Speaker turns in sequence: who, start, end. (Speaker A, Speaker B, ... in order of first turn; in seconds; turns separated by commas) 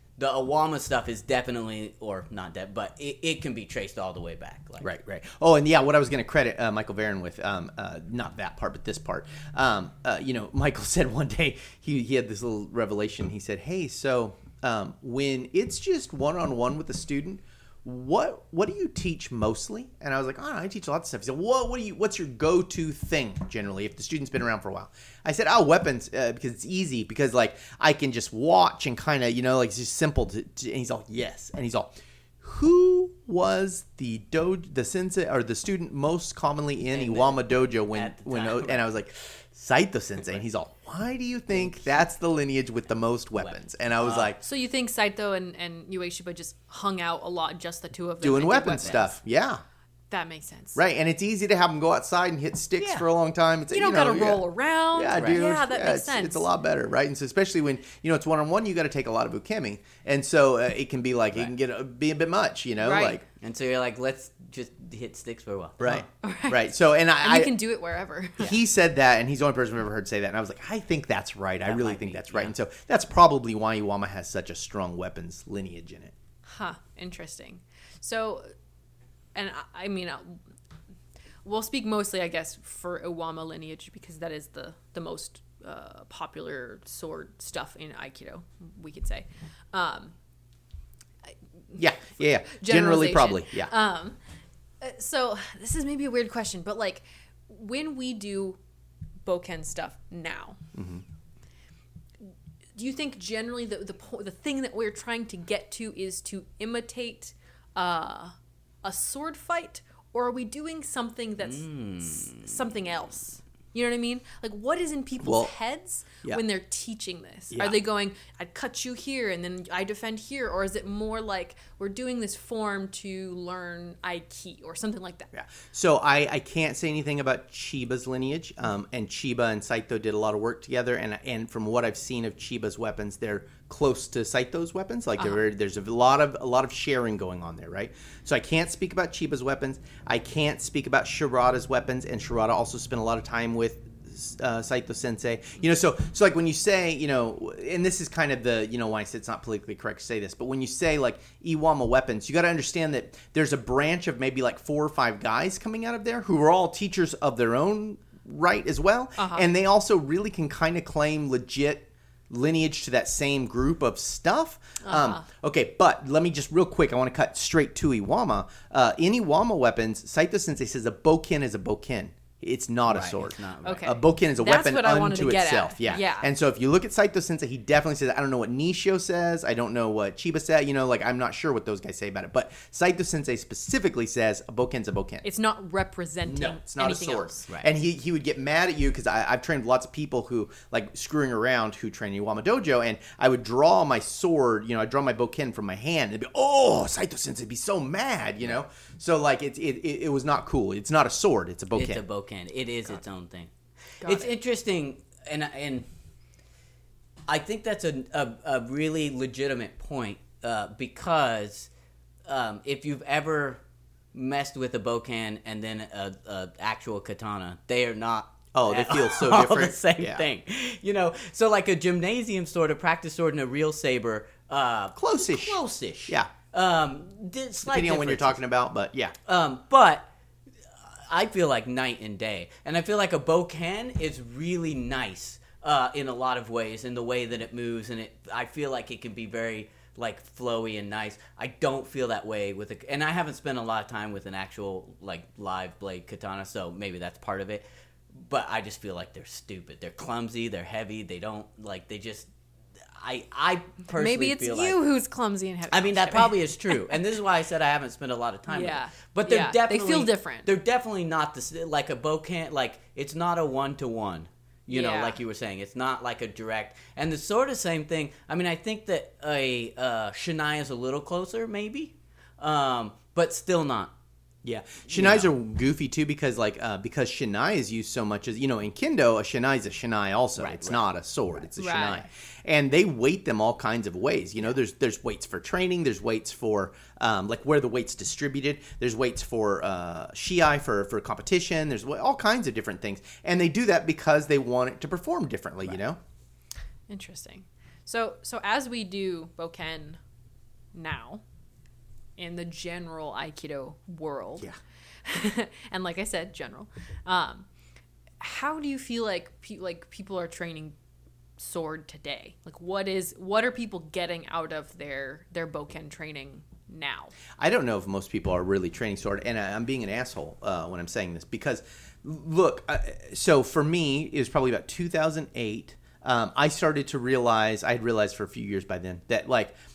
Speaker A: 0.2-4.9, Speaker B: 4.8-44.4, Speaker A: 36.9-38.9, Speaker A: 43.4-44.3, Speaker C: 44.4-49.1, Speaker B: 48.2-49.6, Speaker C: 50.1-50.8, Speaker B: 50.8-54.4, Speaker C: 53.7-56.5, Speaker B: 54.9-63.2, Speaker A: 55.1-55.4, Speaker C: 62.8-63.2, Speaker A: 63.4-66.0, Speaker B: 65.8-67.6, Speaker C: 66.2-68.5, Speaker B: 68.4-76.1, Speaker A: 71.6-72.5, Speaker C: 76.5-78.5, Speaker C: 79.3-80.4, Speaker C: 81.5-90.1, Speaker B: 91.8-93.7, Speaker C: 92.5-94.2, Speaker C: 94.8-98.6, Speaker C: 99.2-100.6, Speaker B: 100.7-101.0, Speaker C: 102.8-125.3, Speaker A: 111.5-112.4, Speaker B: 115.2-115.5, Speaker B: 117.5-117.8, Speaker B: 125.3-185.2, Speaker C: 135.2-135.4, Speaker C: 159.2-159.5, Speaker C: 164.8-165.2, Speaker A: 172.9-174.0, Speaker C: 173.6-176.3, Speaker C: 185.2-187.5, Speaker B: 186.3-202.0, Speaker A: 201.7-203.5, Speaker C: 204.0-204.3, Speaker A: 204.0-205.9, Speaker A: 207.3-211.7, Speaker A: 212.2-213.6, Speaker A: 214.1-228.4, Speaker B: 218.5-220.2, Speaker B: 224.9-226.3, Speaker B: 227.6-229.2, Speaker A: 229.2-230.1, Speaker A: 230.9-252.3, Speaker A: 253.0-254.8, Speaker C: 253.9-257.0, Speaker A: 255.7-273.9, Speaker C: 258.5-260.5, Speaker C: 264.7-265.2, Speaker B: 274.4-296.0, Speaker A: 274.9-275.3, Speaker A: 280.4-280.8, Speaker C: 281.6-282.1, Speaker C: 296.9-300.0, Speaker C: 300.7-301.2, Speaker C: 302.2-304.5, Speaker C: 305.0-307.5, Speaker C: 308.2-310.8, Speaker C: 311.4-317.1, Speaker B: 317.4-329.5